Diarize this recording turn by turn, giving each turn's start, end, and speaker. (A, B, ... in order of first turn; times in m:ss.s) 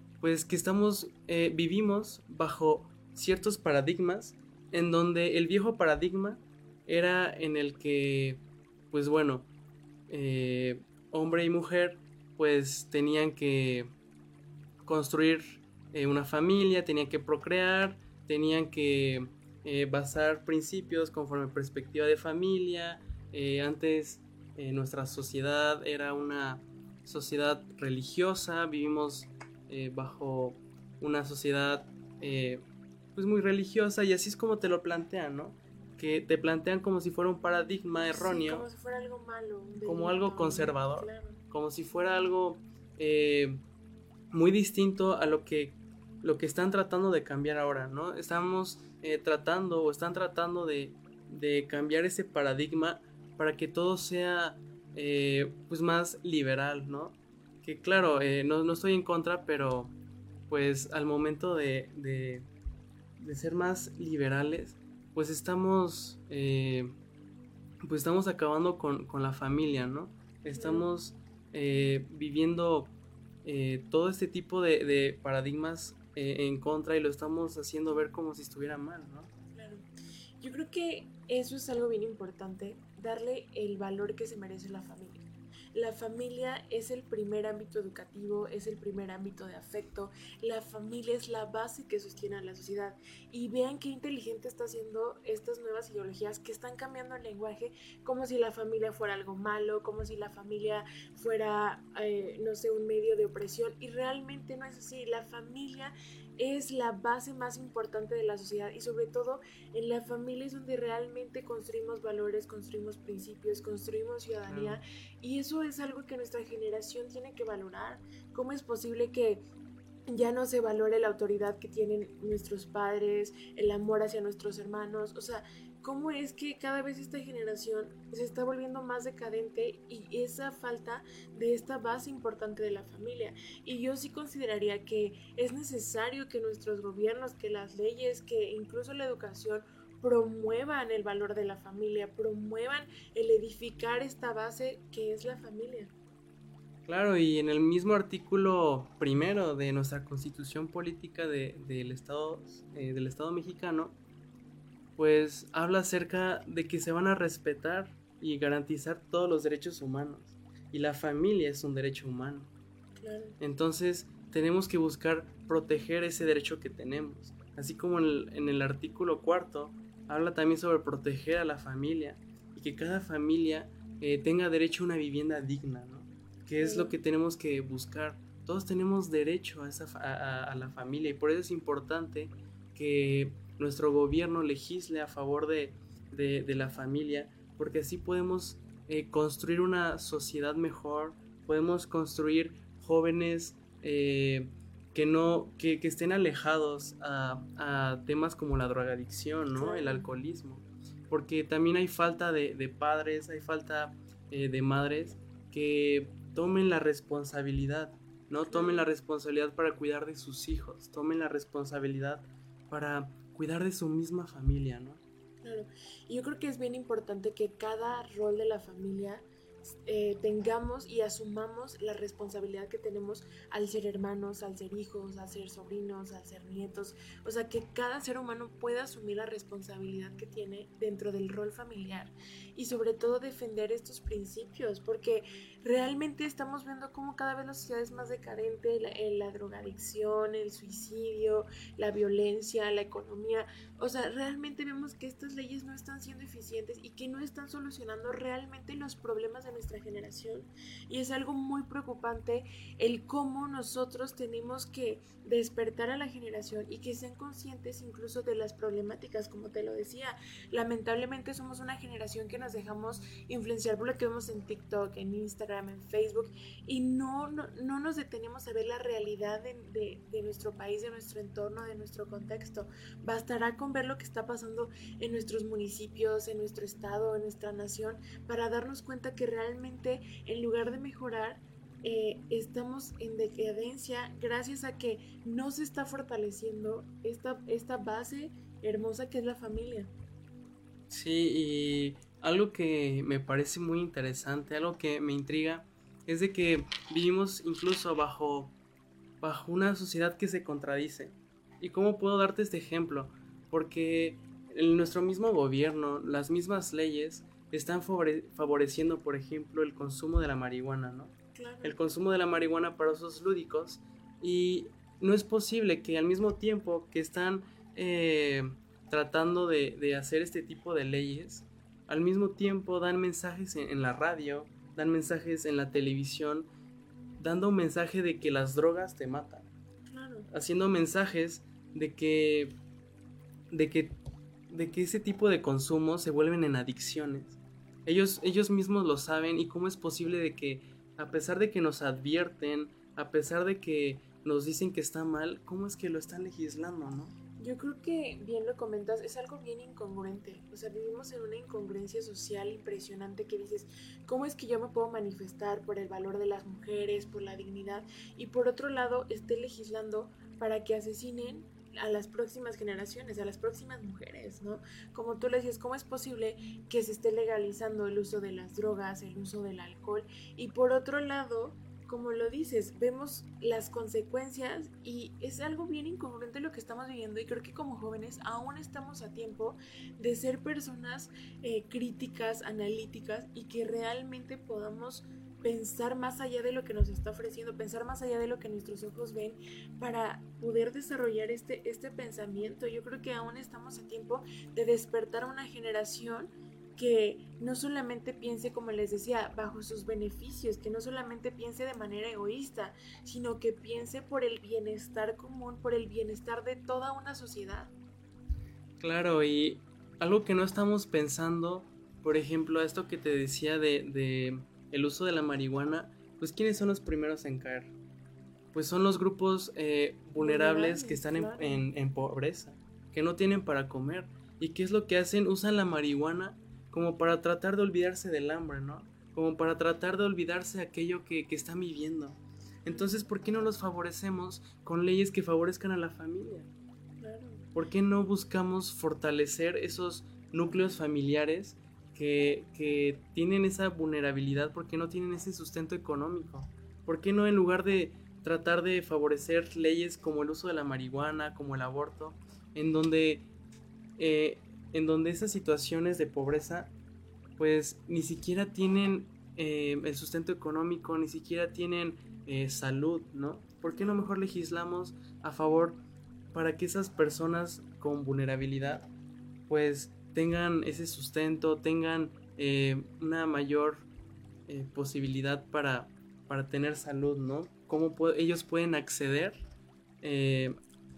0:00.2-0:09.5 A
0:10.1-0:13.9 A
0:14.8-0:32.6 A
0:33.2-0:38.7 A
0:38.0-0:41.4 B
0:39.9-0:43.6 A
0:44.3-0:59.9 A
1:00.5-1:02.5 A
1:03.2-1:06.9 A
1:07.8-1:12.9 A
1:10.5-1:10.9 B
1:13.4-1:19.3 A
1:19.5-1:19.8 B
1:20.4-1:59.4 B
1:54.5-1:54.8 A
2:00.1-2:25.9 B
2:26.9-2:34.0 A
2:35.0-2:42.5 A
2:43.0-2:43.4 B
2:43.4-3:35.0 A
2:56.6-2:57.0 B
3:19.6-3:20.1 B
3:28.5-3:28.9 B
3:35.4-4:49.9 B
4:50.9-4:58.5 A
4:59.2-5:26.5 A
5:11.4-5:11.8 B
5:27.2-5:29.5 A
5:29.9-5:30.3 B
5:30.3-5:32.5 A
5:33.5-5:33.9 A
5:34.5-5:47.2 A
5:47.4-6:47.7 B
6:48.8-6:57.7 A
6:58.5-7:16.5 A
7:00.2-7:01.7 B
7:12.7-7:13.0 B
7:17.0-7:17.5 B
7:17.6-7:33.2 A
7:34.0-7:36.7 A
7:37.4-7:45.8 A
7:43.7-7:44.1 B
7:46.3-7:48.9 A
7:49.5-7:53.8 A
7:54.5-7:59.4 A
8:00.0-8:00.6 A